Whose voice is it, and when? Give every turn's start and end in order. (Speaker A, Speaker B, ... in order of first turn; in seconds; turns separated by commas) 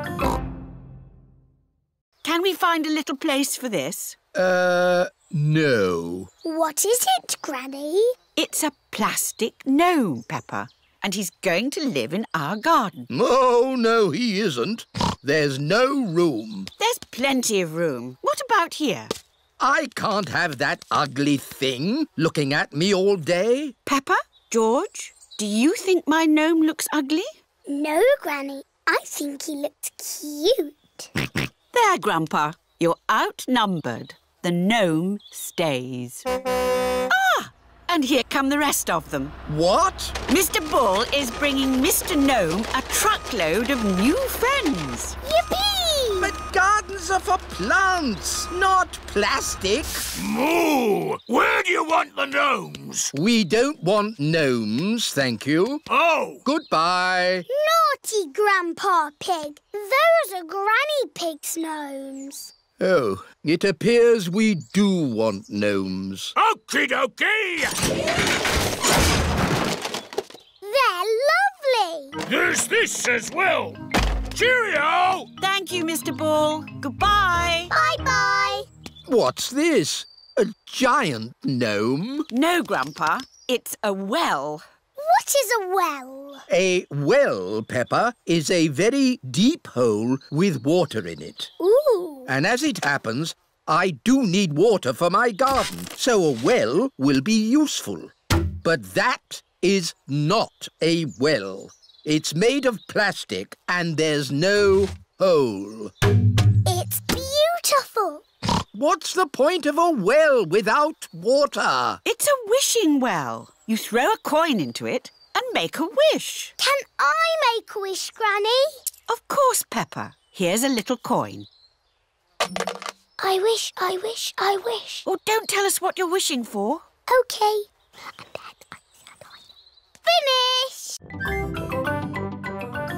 Speaker A: 2.2-4.2, Speaker B: 4.3-6.3, Speaker C: 6.4-8.2, Speaker A: 8.4-13.1, Speaker B: 13.1-16.7, Speaker A: 16.8-19.1, Speaker B: 19.6-23.8, Speaker A: 23.9-27.3, Speaker C: 27.7-31.1, Speaker A: 31.7-36.3, Speaker A: 37.1-39.4, Speaker B: 39.5-40.2, Speaker A: 40.3-45.2, Speaker C: 45.2-46.3, Speaker B: 46.2-50.0, Speaker D: 50.2-53.1, Speaker B: 53.1-55.8, Speaker D: 55.9-56.4, Speaker B: 56.5-57.5, Speaker C: 57.5-62.5, Speaker B: 62.8-66.3, Speaker D: 66.4-67.8, Speaker C: 70.6-72.2, Speaker D: 72.3-73.8, Speaker D: 74.3-75.3, Speaker A: 75.4-77.7, Speaker C: 77.7-78.7, Speaker B: 79.1-82.3, Speaker A: 82.3-84.6, Speaker C: 85.0-86.4, Speaker B: 86.5-91.5, Speaker C: 91.6-92.3, Speaker B: 92.3-105.9, Speaker C: 106.7-108.2, Speaker B: 108.7-112.0, Speaker A: 112.0-116.5, Speaker C: 116.6-118.8, Speaker A: 119.1-121.5, Speaker C: 123.2-125.0, Speaker A: 125.0-126.8, Speaker C: 127.1-129.3, Speaker C: 130.1-131.0